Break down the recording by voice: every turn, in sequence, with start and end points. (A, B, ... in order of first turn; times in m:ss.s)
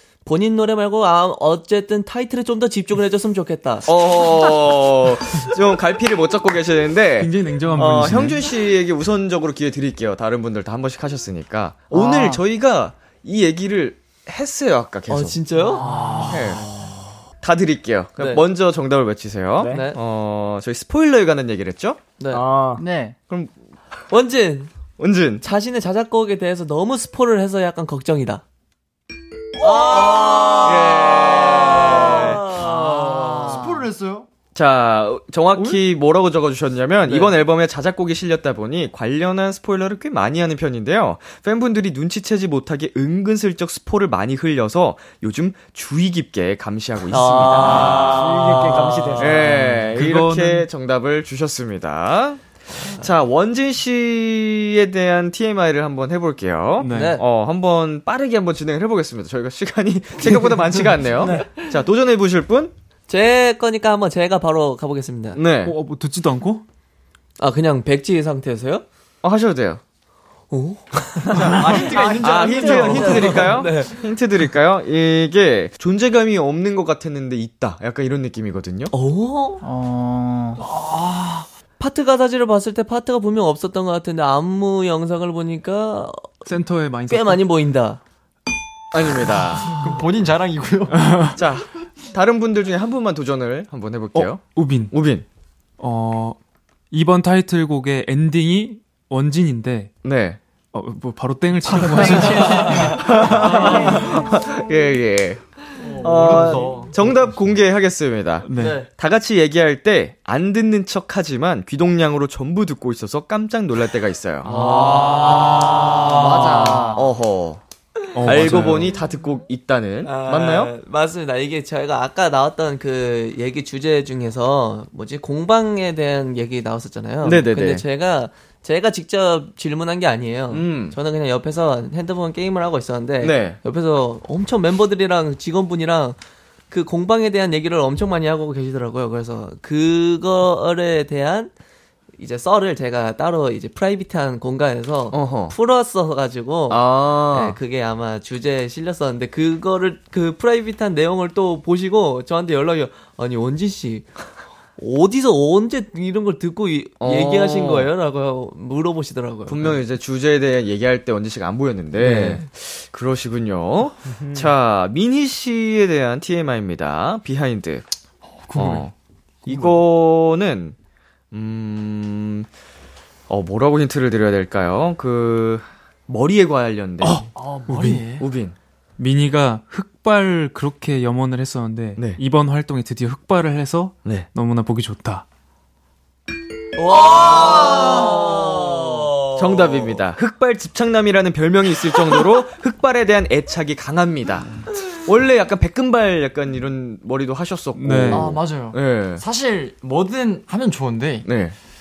0:00.2-0:04.2 A
0:03.9-0:15.4 B
0:07.2-0:08.4 C
0:11.9-0:12.4 D
0:15.1-0:16.5 A
0:15.6-0:16.9 E
0:16.3-0:16.6 B
0:17.4-0:22.0 B
0:18.2-0:18.4 A
0:19.6-0:19.9 F
0:19.7-0:20.0 A
0:22.3-0:22.8 F
0:22.8-0:23.2 D
0:24.1-0:24.7 A
0:25.0-0:25.4 B
0:25.4-0:28.4 A
0:29.6-0:33.8 A
0:30.6-0:32.4 B
0:32.5-0:34.3 E
0:32.7-0:33.9 D
0:34.5-0:48.1 B
0:37.0-0:37.4 A
0:47.1-0:48.8 A
0:47.7-0:50.7 C
0:47.7-0:49.7 F
0:49.2-1:02.7 B
0:52.7-0:53.1 A
0:56.8-0:57.2 C
0:56.9-0:57.2 A
1:01.2-1:01.5 A
1:03.1-1:05.4 A
1:05.3-1:05.8 B
1:05.6-1:06.6 C
1:07.4-1:08.8 A
1:09.2-1:09.8 B
1:10.5-1:14.0 A
1:11.3-1:18.9 B
1:11.3-1:13.5 E
1:18.9-1:19.6 A
1:19.6-1:20.6 D
1:20.6-1:21.5 E
1:21.8-1:26.5 A
1:26.4-1:27.4 C
1:27.1-1:28.0 A
1:28.9-1:29.7 B
1:29.7-1:31.3 E
1:31.0-1:31.4 C
1:31.3-1:35.2 B
1:34.1-1:34.9 C
1:35.8-1:36.4 C
1:36.9-1:39.9 C
1:40.0-1:40.4 B
1:40.7-1:43.1 C
1:41.8-1:43.0 D
1:42.7-1:45.4 B
1:43.1-1:44.6 F
1:45.8-1:47.1 E
1:46.0-1:46.8 F
1:46.0-1:54.5 B
1:48.4-1:48.8 C
1:48.6-1:48.9 A
1:54.4-1:55.1 C
1:54.5-1:56.6 A
1:54.9-1:56.0 E
1:55.7-1:57.1 D
1:56.9-1:57.6 B
1:58.1-1:58.9 C
1:58.2-1:58.7 A
1:58.2-2:00.7 B
2:00.0-2:16.2 A
2:07.2-2:07.8 B
2:10.5-2:11.0 B
2:13.2-2:13.6 B
2:16.7-2:21.5 A
2:22.2-2:34.1 A
2:25.1-2:25.5 B
2:26.7-2:27.6 B
2:34.8-2:39.8 A
2:37.0-2:37.9 B
2:39.5-2:47.8 B
2:42.0-2:42.4 A
2:44.0-2:44.5 F
2:48.4-2:48.9 E
2:48.5-2:48.9 B
2:49.4-2:49.8 E
2:49.4-2:50.7 B
2:51.3-2:52.5 B
2:53.3-2:57.3 B
2:57.0-2:58.0 C
2:57.3-2:58.3 E
2:58.2-2:58.6 B
2:59.0-3:05.2 C
3:06.7-3:10.0 A
3:09.4-3:19.2 B
3:17.7-3:18.4 C
3:18.1-3:21.3 E
3:21.2-3:21.6 B